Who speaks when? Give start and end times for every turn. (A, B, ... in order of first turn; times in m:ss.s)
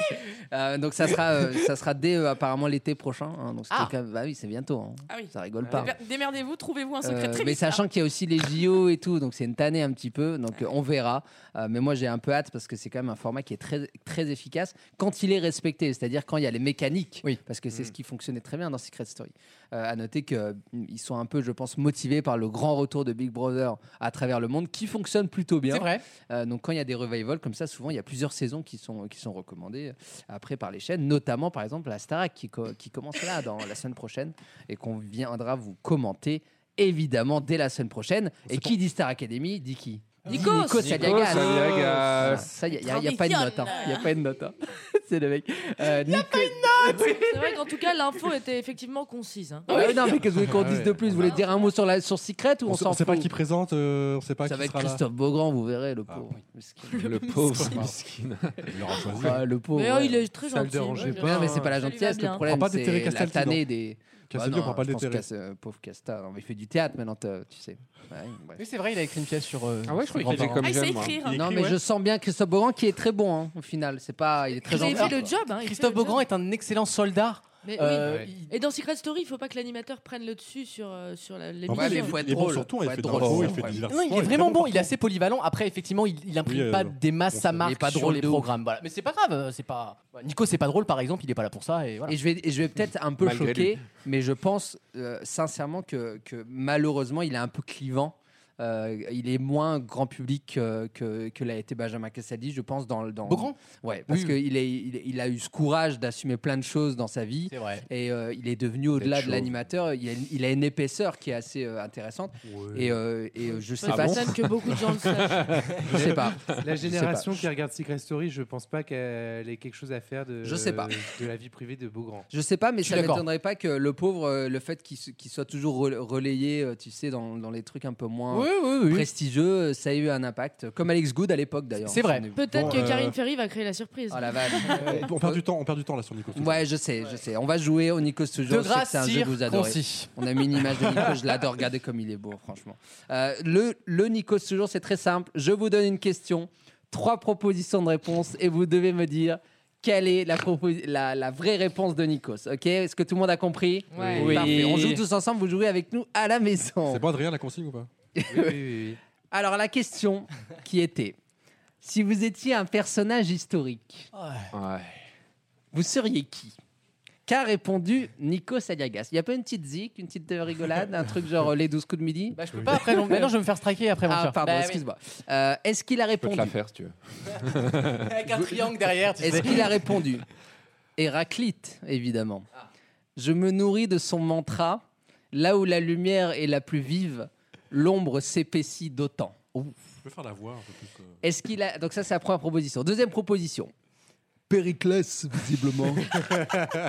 0:00.5-0:06.0 A
0:05.1-0:07.8 B
0:07.0-0:47.5 A
0:25.7-0:26.0 C
0:38.5-0:38.8 D
0:40.3-0:41.0 E
0:40.7-0:42.5 F
0:42.8-0:44.1 B
0:46.1-0:47.2 C
0:47.1-0:49.9 E
0:49.7-0:53.3 A
0:49.7-0:50.1 C
0:50.5-0:51.3 G
0:52.6-0:55.0 D
0:54.4-0:57.8 A
0:56.9-0:58.7 F
0:57.0-0:57.8 E
0:57.6-0:57.9 D
0:58.7-0:59.4 D
0:59.1-1:00.3 A
0:59.7-1:02.5 E
1:00.5-1:01.8 G
1:01.0-1:08.6 A
1:02.4-1:03.7 D
1:04.3-1:05.3 D
1:08.6-1:10.6 C
1:09.8-1:11.2 F
1:10.2-1:10.7 D
1:10.6-1:11.5 B
1:11.2-1:11.8 D
1:11.3-1:15.4 A
1:14.6-1:16.2 E
1:14.8-1:18.5 C
1:17.6-1:22.2 E
1:18.0-1:18.3 G
1:21.7-1:23.8 A
1:21.7-1:24.9 D
1:23.2-1:23.6 F
1:23.9-1:32.2 C
1:26.4-1:27.6 D
1:27.6-1:28.5 A
1:32.1-1:54.5 A
1:33.2-1:33.8 F
1:43.3-1:44.4 C
1:47.5-1:47.8 C
1:53.7-1:55.6 E
1:53.8-1:56.0 F
1:55.8-1:57.4 A
1:56.6-2:02.3 G
2:00.4-2:01.0 A
2:02.3-2:13.0 A
2:02.8-2:03.2 C
2:08.3-2:09.1 C
2:11.8-2:12.3 C
2:12.3-2:14.9 E
2:12.5-2:13.2 D
2:14.1-2:15.4 A
2:14.7-2:16.7 D
2:16.3-2:37.0 A
2:18.5-2:20.1 C
2:33.9-2:34.3 E
2:34.2-2:35.0 F
2:36.9-2:37.9 D
2:38.2-2:38.6 A
2:38.3-2:39.0 G
2:39.3-2:41.2 A
2:41.8-2:44.1 A
2:44.1-2:44.5 C
2:44.5-2:44.9 F
2:45.7-2:46.5 A
2:47.2-2:53.2 A
2:52.3-2:54.8 C
2:54.1-2:56.5 A
2:56.2-2:58.0 F
2:58.0-3:00.0 C
2:59.2-3:00.2 A
3:01.0-3:02.4 A
3:03.2-3:09.7 A
3:10.0-3:11.2 D
3:11.2-3:13.7 A
3:14.5-3:16.2 A